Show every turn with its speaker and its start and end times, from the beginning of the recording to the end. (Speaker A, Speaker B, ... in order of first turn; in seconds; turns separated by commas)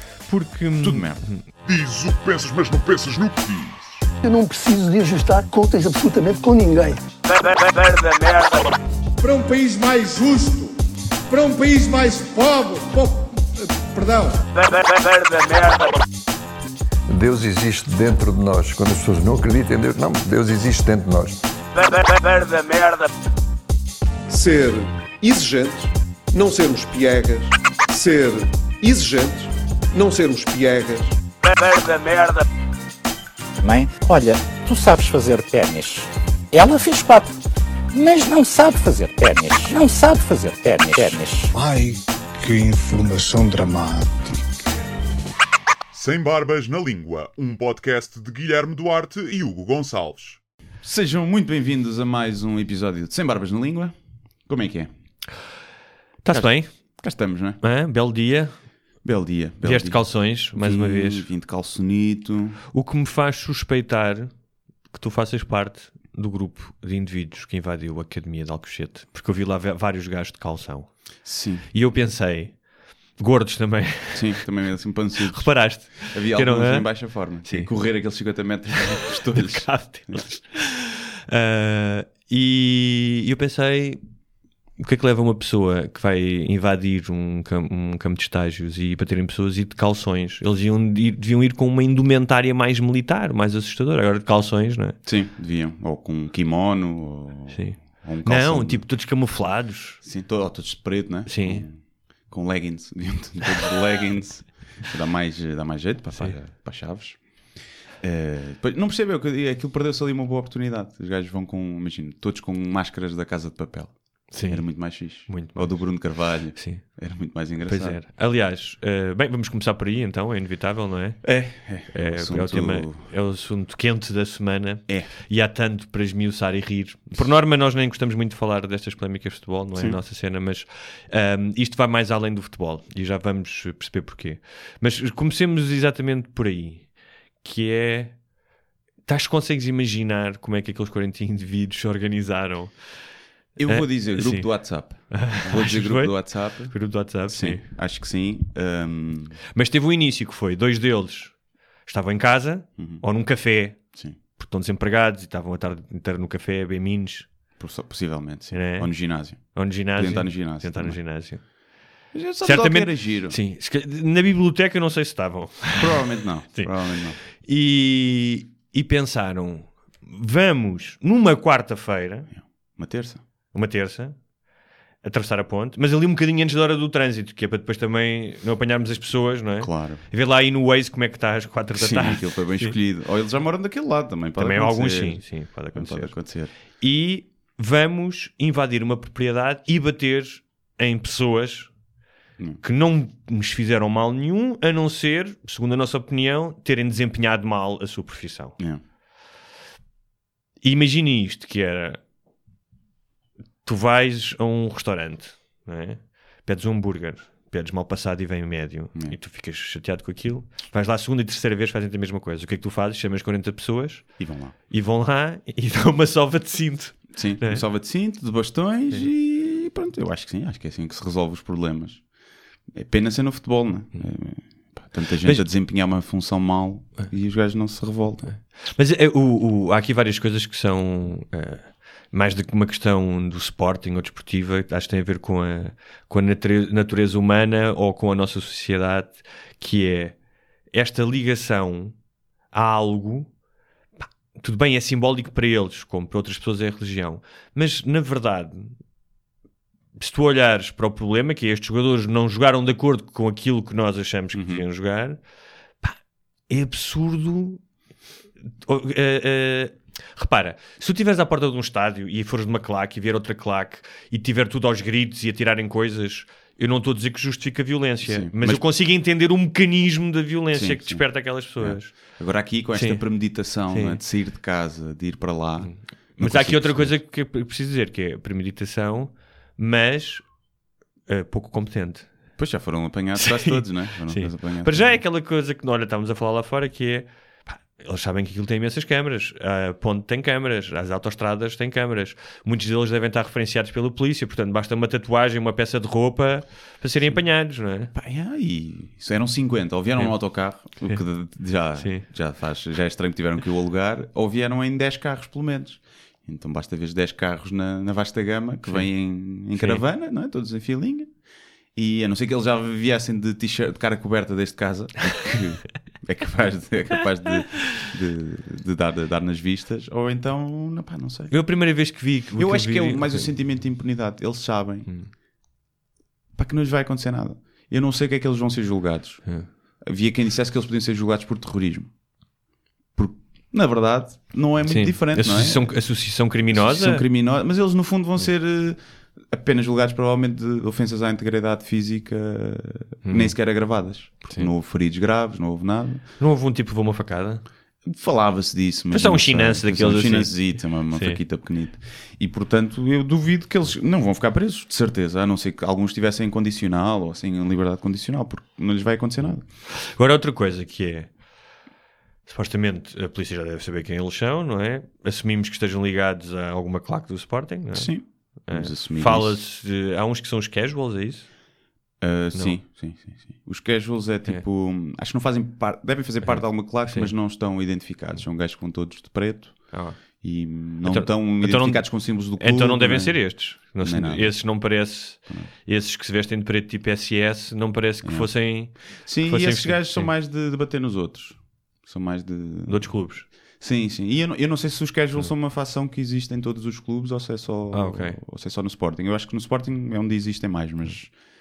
Speaker A: 0.3-1.4, Speaker B: 0.8-1.2, Speaker C: 1.6-4.0, Speaker D: 4.2-8.6, Speaker E: 9.3-10.7, Speaker E: 11.7-12.9, Speaker D: 14.6-15.9, Speaker F: 17.1-21.4, Speaker D: 21.8-23.0, Speaker G: 24.3-31.1, Speaker D: 31.4-32.4, Speaker H: 33.6-37.3, Speaker H: 37.9-41.5, Speaker F: 43.3-44.0, Speaker C: 45.9-50.4, Speaker B: 50.8-53.9, Speaker B: 54.5-54.9, Speaker A: 56.2-57.0, Speaker B: 56.3-57.6, Speaker A: 57.6-58.5, Speaker B: 59.0-62.6, Speaker A: 59.6-61.3, Speaker A: 62.7-64.3, Speaker A: 64.9-74.4, Speaker B: 71.2-71.7, Speaker B: 74.1-80.3, Speaker A: 75.3-77.7, Speaker A: 79.0-84.0, Speaker A: 84.8-95.0, Speaker B: 95.0-98.8, Speaker A: 97.5-100.0, Speaker B: 100.0-118.0, Speaker A: 101.3-101.7, Speaker A: 114.3-117.0, Speaker A: 117.6-136.9, Speaker B: 121.2-123.0, Speaker B: 129.7-130.0, Speaker A: 137.4-138.2, Speaker A: 139.1-142.7, Speaker B: 143.6-149.4, Speaker A: 143.7-147.7, Speaker A: 149.5-157.3, Speaker B: 152.8-153.0, Speaker B: 157.6-161.0, Speaker A: 158.5-161.4, Speaker B: 162.1-163.4, Speaker A: 162.4-166.0, Speaker B: 165.7-167.2, Speaker A: 167.4-172.3, Speaker B: 172.3-173.2, Speaker A: 173.5-174.2, Speaker A: 175.0-182.8, Speaker B: 179.6-180.0, Speaker B: 181.7-186.5, Speaker A: 184.4-186.2, Speaker A: 186.8-191.7, Speaker A: 192.6-198.6, Speaker A: 200.6-202.0, Speaker A: 203.6-217.6, Speaker B: 214.2-214.5, Speaker B: 217.1-222.0, Speaker B: 222.7-228.3, Speaker A: 225.2-225.5, Speaker A: 228.6-240.2, Speaker A: 240.7-241.9, Speaker A: 242.5-243.3, Speaker A: 244.0-248.8, Speaker A: 250.0-255.2, Speaker B: 254.3-254.6, Speaker A: 256.5-257.6, Speaker A: 258.6-272.2, Speaker B: 268.0-268.6, Speaker B: 270.5-276.9, Speaker A: 272.7-274.0, Speaker A: 275.6-280.3, Speaker A: 281.1-282.1, Speaker B: 282.4-285.0, Speaker A: 283.2-297.9, Speaker B: 297.9-311.1, Speaker A: 299.9-301.0, Speaker A: 301.8-302.1, Speaker A: 308.7-309.8, Speaker B: 311.7-321.3, Speaker A: 321.3-323.3, Speaker B: 322.3-324.9, Speaker B: 326.3-331.9, Speaker B: 332.9-346.0, Speaker A: 334.6-337.0, Speaker A: 343.0-343.4, Speaker A: 346.2-347.4, Speaker B: 347.8-359.4, Speaker A: 348.9-351.2, Speaker A: 359.2-361.1, Speaker A: 362.2-371.3, Speaker B: 367.7-369.4, Speaker B: 372.0-384.4, Speaker A: 376.2-377.1, Speaker A: 379.7-380.2, Speaker A: 380.8-390.1, Speaker B: 388.0-401.2, Speaker A: 392.7-393.3, Speaker A: 397.7-398.2